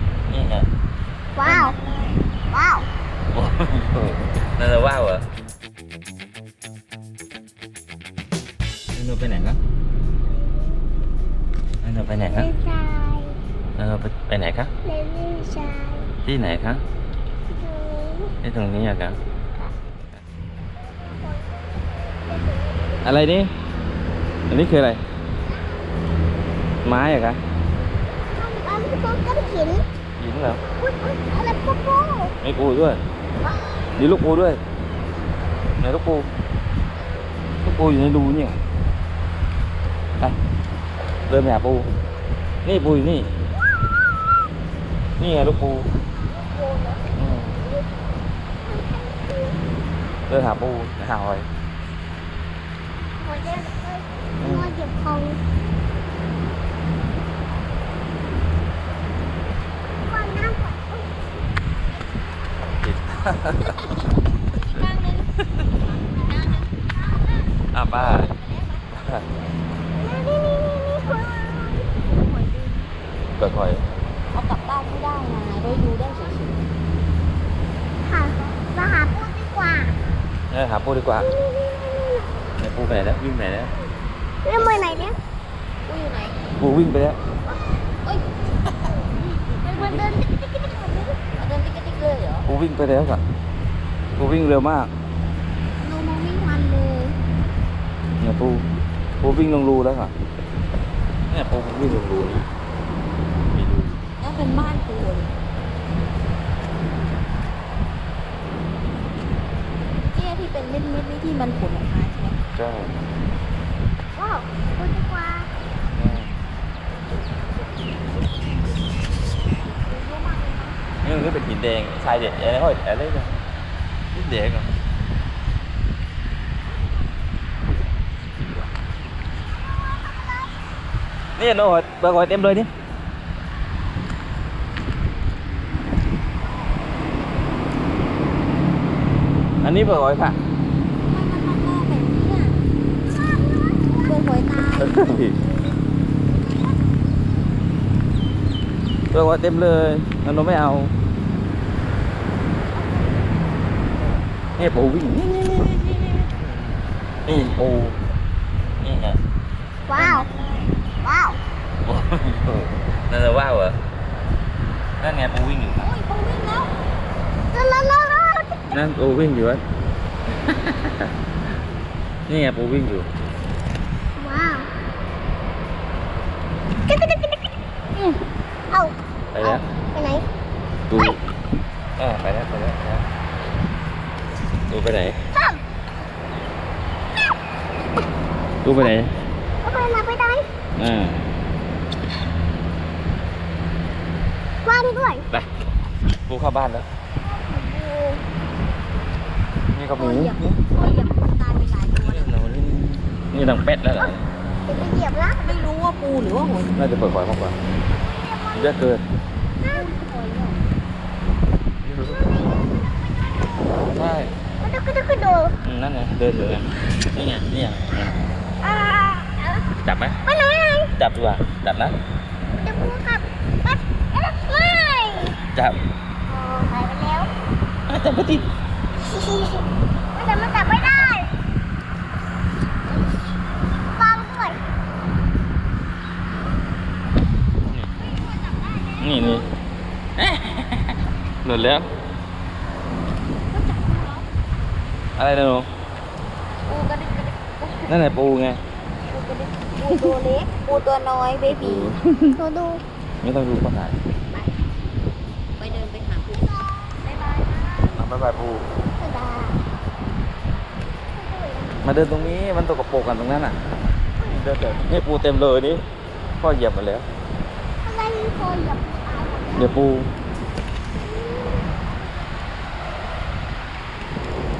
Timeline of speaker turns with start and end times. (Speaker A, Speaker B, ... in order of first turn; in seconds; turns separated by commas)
Speaker A: 0.3-0.7, Speaker B: 1.4-1.8, Speaker A: 1.4-1.7, Speaker B: 2.5-2.9, Speaker A: 3.3-5.2, Speaker A: 8.9-9.6, Speaker A: 11.8-12.5, Speaker B: 12.2-13.4, Speaker A: 13.8-14.7, Speaker B: 14.8-16.1, Speaker A: 16.2-16.8, Speaker B: 17.5-18.3, Speaker A: 18.4-19.2, Speaker B: 20.9-23.0, Speaker A: 23.0-23.5, Speaker A: 24.5-25.0, Speaker A: 26.8-27.4, Speaker B: 28.3-29.8, Speaker A: 30.2-30.6, Speaker B: 30.8-32.3, Speaker A: 32.4-33.0, Speaker B: 33.4-33.9, Speaker A: 34.0-34.6, Speaker A: 35.8-36.3, Speaker A: 37.6-38.6, Speaker A: 41.3-41.9, Speaker A: 42.6-43.3, Speaker A: 45.2-45.9, Speaker B: 46.3-47.0, Speaker A: 47.1-47.5, Speaker B: 48.6-49.6, Speaker A: 50.3-51.5, Speaker B: 53.2-55.4, Speaker A: 54.4-54.7, Speaker B: 60.0-61.2, Speaker A: 62.8-63.8, Speaker C: 63.6-67.4, Speaker A: 67.7-68.3, Speaker C: 67.9-68.8, Speaker A: 69.0-69.2, Speaker B: 69.9-71.9, Speaker C: 72.0-72.9, Speaker A: 73.3-73.8, Speaker C: 74.3-76.6, Speaker B: 78.0-80.0, Speaker A: 80.5-81.3, Speaker B: 81.1-82.3, Speaker A: 82.6-83.7, Speaker B: 84.4-85.2, Speaker C: 84.5-85.1, Speaker C: 85.8-86.5, Speaker A: 86.6-87.2, Speaker C: 88.0-88.3, Speaker C: 88.9-90.2, Speaker B: 89.6-91.2, Speaker C: 91.3-92.5, Speaker A: 92.4-93.2, Speaker A: 94.2-94.9, Speaker C: 95.8-97.2, Speaker A: 98.2-98.7, Speaker A: 99.2-100.1, Speaker A: 101.3-102.5, Speaker A: 103.5-104.0, Speaker C: 104.2-105.3, Speaker C: 110.1-112.4, Speaker A: 112.5-112.9, Speaker B: 114.2-115.5, Speaker A: 115.9-116.3, Speaker C: 119.9-120.8, Speaker A: 121.0-123.3, Speaker A: 124.1-124.7, Speaker B: 129.8-130.4, Speaker A: 131.3-132.7, Speaker A: 139.6-140.4, Speaker C: 141.0-142.7, Speaker B: 143.0-144.2, Speaker C: 143.9-145.1, Speaker A: 144.7-145.4, Speaker A: 149.1-150.9, Speaker A: 154.6-156.5, Speaker A: 157.3-157.9, Speaker A: 158.8-159.2, Speaker B: 159.9-160.3, Speaker A: 159.9-160.2, Speaker C: 160.0-160.7, Speaker B: 161.0-161.4, Speaker A: 161.8-163.8, Speaker A: 165.0-165.9, Speaker C: 165.8-166.7, Speaker B: 167.5-168.6, Speaker A: 168.7-169.6, Speaker A: 170.5-171.1, Speaker A: 172.3-173.1, Speaker B: 174.2-174.7, Speaker B: 176.9-177.3, Speaker B: 177.9-178.2, Speaker B: 178.7-180.2, Speaker A: 179.3-179.6, Speaker A: 180.9-181.2, Speaker A: 182.0-183.0, Speaker A: 184.7-185.2, Speaker B: 185.3-185.6, Speaker A: 188.6-189.1, Speaker B: 189.6-190.5, Speaker A: 190.8-191.2, Speaker B: 194.6-195.3, Speaker A: 196.3-196.8, Speaker B: 197.2-198.2, Speaker A: 199.7-200.6, Speaker C: 199.9-202.5, Speaker A: 202.0-204.2, Speaker B: 204.6-205.6, Speaker C: 205.4-206.8, Speaker A: 206.7-207.6, Speaker B: 208.0-208.8, Speaker A: 208.5-209.0, Speaker C: 209.6-210.6, Speaker A: 211.8-212.4, Speaker B: 212.2-212.9, Speaker A: 213.9-214.3, Speaker B: 214.6-215.6, Speaker A: 215.6-218.2, Speaker B: 218.6-219.5, Speaker A: 219.8-220.2, Speaker B: 220.2-220.9, Speaker A: 220.9-221.9, Speaker B: 222.6-225.4, Speaker A: 225.5-225.8, Speaker B: 226.3-227.3, Speaker A: 227.9-228.5, Speaker B: 229.1-231.3, Speaker B: 233.9-234.7, Speaker C: 237.9-239.5, Speaker A: 239.0-239.4, Speaker A: 240.2-241.9, Speaker C: 243.4-244.3, Speaker A: 245.2-245.7, Speaker C: 246.6-248.0, Speaker A: 247.9-248.6, Speaker C: 249.1-251.9, Speaker B: 249.8-250.2, Speaker A: 251.4-252.3, Speaker B: 252.3-252.8, Speaker A: 253.2-254.0, Speaker C: 255.6-258.0, Speaker A: 257.9-258.6, Speaker B: 259.0-259.6, Speaker B: 261.1-262.1, Speaker A: 261.8-263.6, Speaker A: 264.2-265.8, Speaker A: 266.4-267.1, Speaker B: 267.8-269.8, Speaker A: 269.5-270.1, Speaker B: 271.0-271.8